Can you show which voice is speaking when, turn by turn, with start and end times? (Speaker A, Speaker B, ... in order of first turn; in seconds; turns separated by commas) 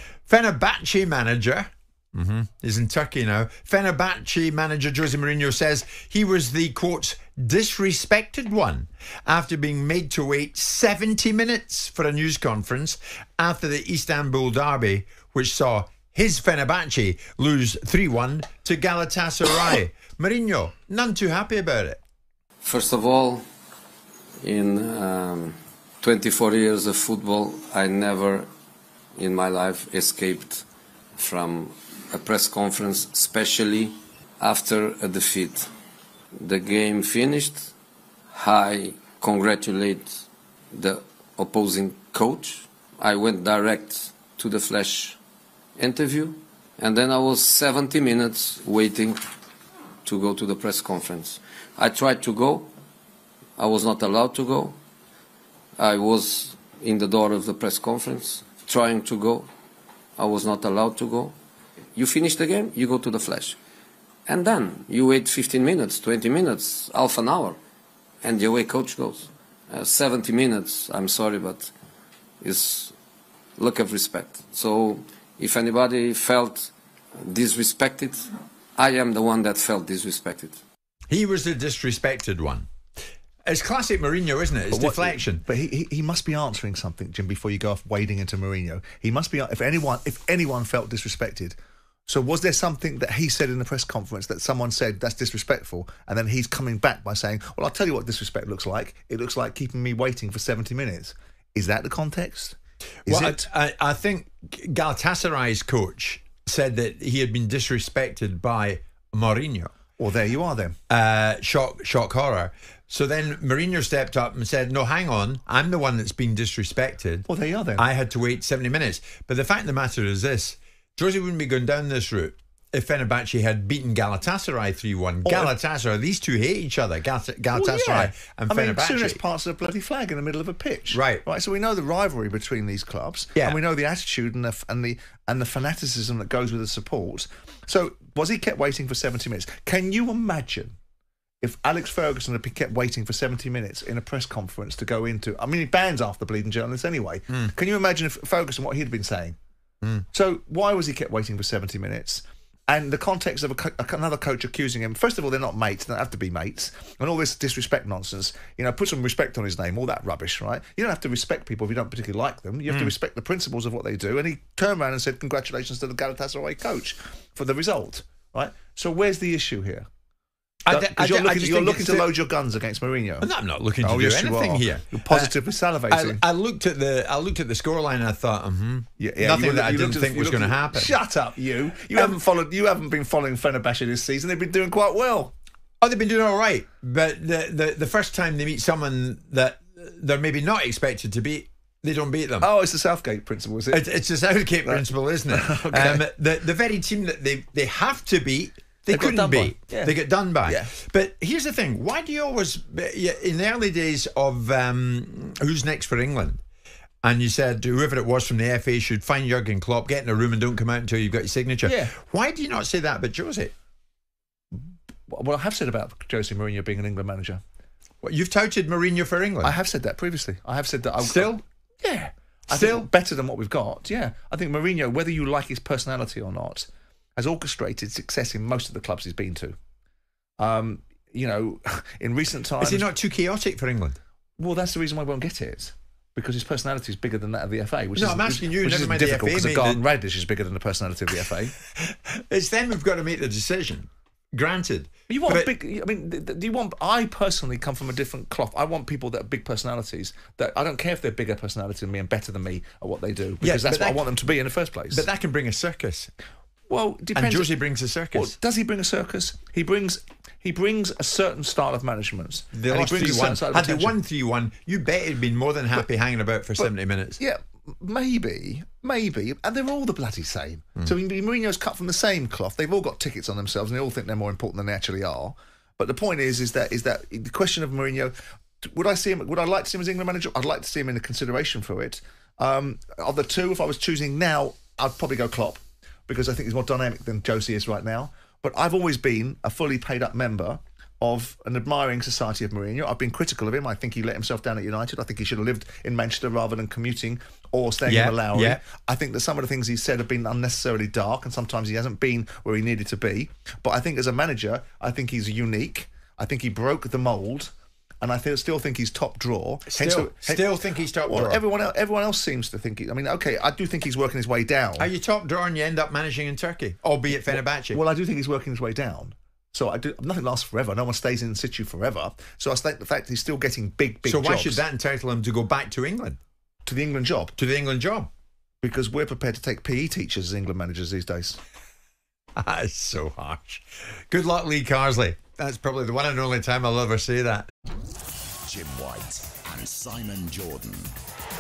Speaker A: 0.3-22.0, Speaker B: 22.6-23.4, Speaker B: 24.4-28.5, Speaker B: 29.2-30.6, Speaker B: 31.2-35.7, Speaker B: 36.4-37.7, Speaker B: 38.3-40.2, Speaker B: 40.7-45.2, Speaker B: 45.8-49.2, Speaker B: 50.0-52.7, Speaker B: 53.6-54.8, Speaker B: 55.8-59.5, Speaker B: 60.2-61.4, Speaker B: 62.0-63.6, Speaker B: 64.3-67.6, Speaker B: 68.2-71.7, Speaker B: 72.4-73.0, Speaker B: 73.6-76.7, Speaker B: 77.2-80.6, Speaker A: 81.1-82.7, Speaker A: 83.5-85.4, Speaker C: 84.7-91.5, Speaker C: 92.1-103.5, Speaker A: 103.0-109.7, Speaker C: 110.0-110.8, Speaker A: 110.9-129.2, Speaker C: 117.3-117.8, Speaker C: 125.2-125.5, Speaker C: 127.5-140.7, Speaker A: 130.9-131.2, Speaker C: 141.4-149.4, Speaker C: 150.1-169.9, Speaker A: 170.7-172.1, Speaker C: 170.7-173.3, Speaker A: 173.2-175.3, Speaker C: 173.8-176.2, Speaker A: 175.9-181.0, Speaker C: 179.0-185.3, Speaker A: 185.8-192.5, Speaker C: 192.4-193.8, Speaker A: 193.7-206.4, Speaker C: 194.6-196.0, Speaker C: 198.9-200.7, Speaker A: 207.0-213.5, Speaker C: 211.6-211.9, Speaker C: 214.5-217.4, Speaker A: 218.0-219.5, Speaker C: 219.4-229.6, Speaker A: 221.0-221.4, Speaker A: 222.5-222.9, Speaker C: 230.4-232.9, Speaker A: 232.6-234.0, Speaker C: 234.4-241.5, Speaker A: 238.0-239.8, Speaker A: 241.8-245.5, Speaker C: 245.1-255.1, Speaker A: 253.4-254.0, Speaker A: 254.9-256.1, Speaker C: 256.7-257.5, Speaker A: 257.1-258.4, Speaker C: 258.1-264.0, Speaker A: 262.5-267.2, Speaker C: 266.6-310.5, Speaker A: 297.9-298.6, Speaker A: 309.7-311.4, Speaker C: 311.1-314.9, Speaker A: 314.8-317.8, Speaker C: 317.1-324.6, Speaker A: 324.1-326.2, Speaker C: 326.6-327.4, Speaker A: 327.4-328.1, Speaker C: 328.6-331.4, Speaker A: 332.4-337.5, Speaker D: 338.5-340.9